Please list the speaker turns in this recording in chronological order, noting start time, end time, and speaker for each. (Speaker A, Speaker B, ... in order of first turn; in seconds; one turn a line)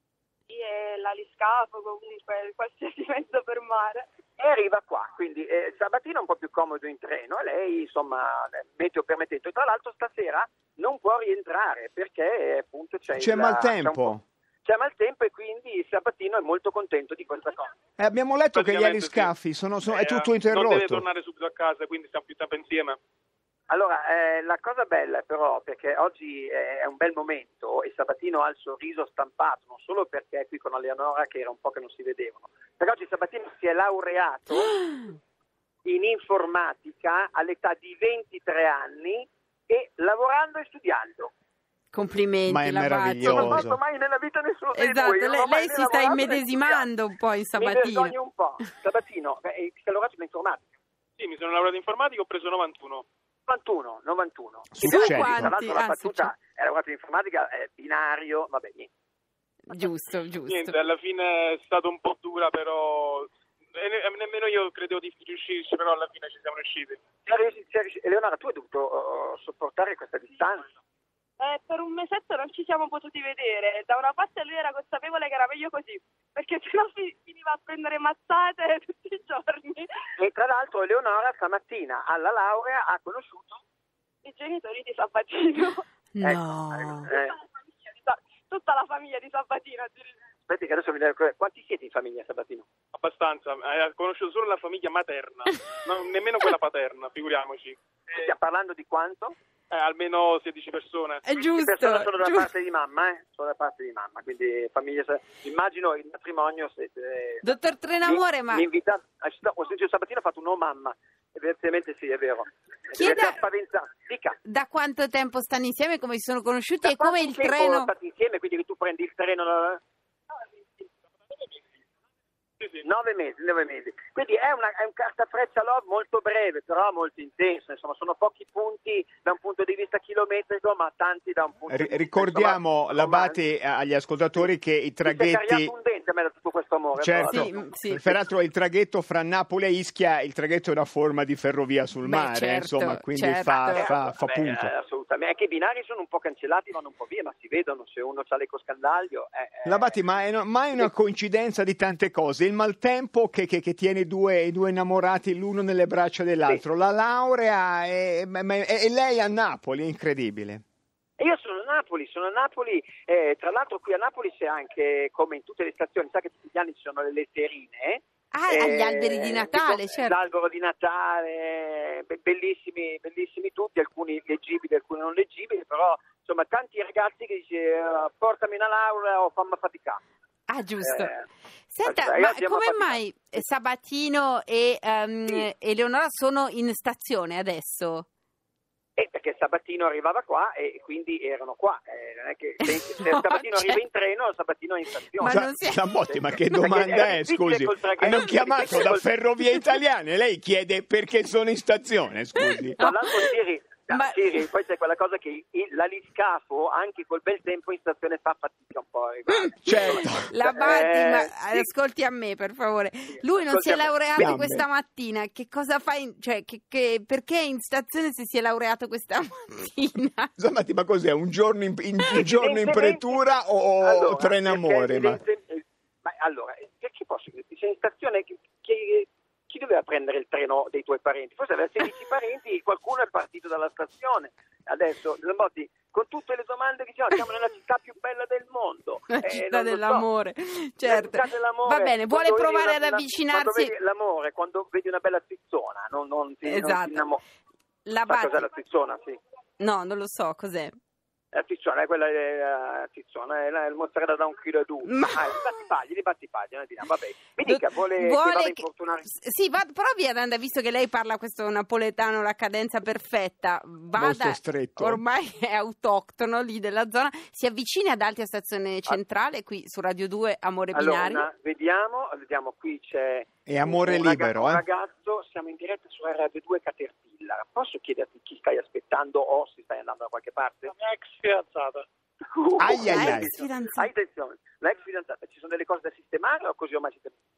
Speaker A: 0.5-4.1
Speaker B: 4.4-17.7
Speaker C: 13.2-14.2
Speaker C: 18.0-21.1
Speaker D: 18.5-19.3
Speaker D: 19.9-23.0
Speaker B: 23.7-34.8
Speaker B: 35.9-41.3
Speaker E: 41.9-43.6
Speaker C: 42.5-43.8
Speaker B: 43.2-46.9
Speaker E: 44.7-48.1
Speaker B: 47.6-50.6
Speaker D: 51.2-53.1
Speaker B: 53.5-58.9
Speaker C: 54.7-55.5
Speaker E: 54.8-56.3
Speaker E: 59.7-60.8
Speaker D: 60.5-67.0
Speaker B: 67.3-70.7
Speaker A: 71.4-79.9
Speaker B: 80.2-83.6
Speaker A: 84.2-85.8
Speaker E: 86.2-87.1
Speaker B: 86.2-87.4
Speaker A: 87.9-90.1
Speaker B: 90.5-92.7
Speaker D: 92.9-97.8
Speaker B: 98.1-99.3
Speaker D: 99.7-101.2
Speaker E: 101.3-102.5
Speaker B: 101.6-107.5
Speaker E: 107.4-108.6
Speaker B: 108.0-114.4
Speaker E: 113.0-113.4
Speaker E: 114.5-117.9
Speaker B: 116.8-119.8
Speaker B: 122.8-133.4
Speaker C: 131.7-135.7
Speaker B: 135.1-137.6
Speaker C: 137.0-144.7
Speaker E: 137.3-138.2
Speaker E: 142.0-143.9
Speaker B: 143.7-150.0
Speaker C: 149.7-160.6
Speaker B: 161.2-180.0
Speaker E: 168.3-170.2
Speaker E: 180.5-181.2
Speaker B: 180.8-181.2
Speaker E: 181.7-188.1
Speaker B: 181.8-183.4
Speaker B: 189.0-195.5
Speaker E: 192.6-193.8
Speaker E: 195.2-196.0
Speaker C: 195.3-202.8
Speaker B: 196.5-199.1
Speaker E: 202.4-203.3
Speaker B: 202.8-211.7
Speaker E: 203.9-204.2
Speaker E: 209.3-220.3
Speaker C: 209.7-210.3
Speaker B: 213.3-213.9
Speaker C: 214.2-214.7
Speaker C: 220.4-225.2
Speaker B: 222.1-240.1
Speaker E: 239.1-243.7
Speaker B: 240.8-247.2
Speaker E: 246.4-247.0
Speaker E: 247.9-248.4
Speaker B: 248.1-249.2
Speaker E: 249.6-250.8
Speaker B: 251.3-259.1
Speaker E: 254.8-255.4
Speaker E: 257.5-271.3
Speaker C: 264.0-265.0
Speaker B: 270.7-280.7
Speaker C: 273.5-274.6
Speaker D: 280.7-281.9
Speaker B: 282.3-287.1
Speaker C: 282.6-283.4
Speaker E: 282.8-283.9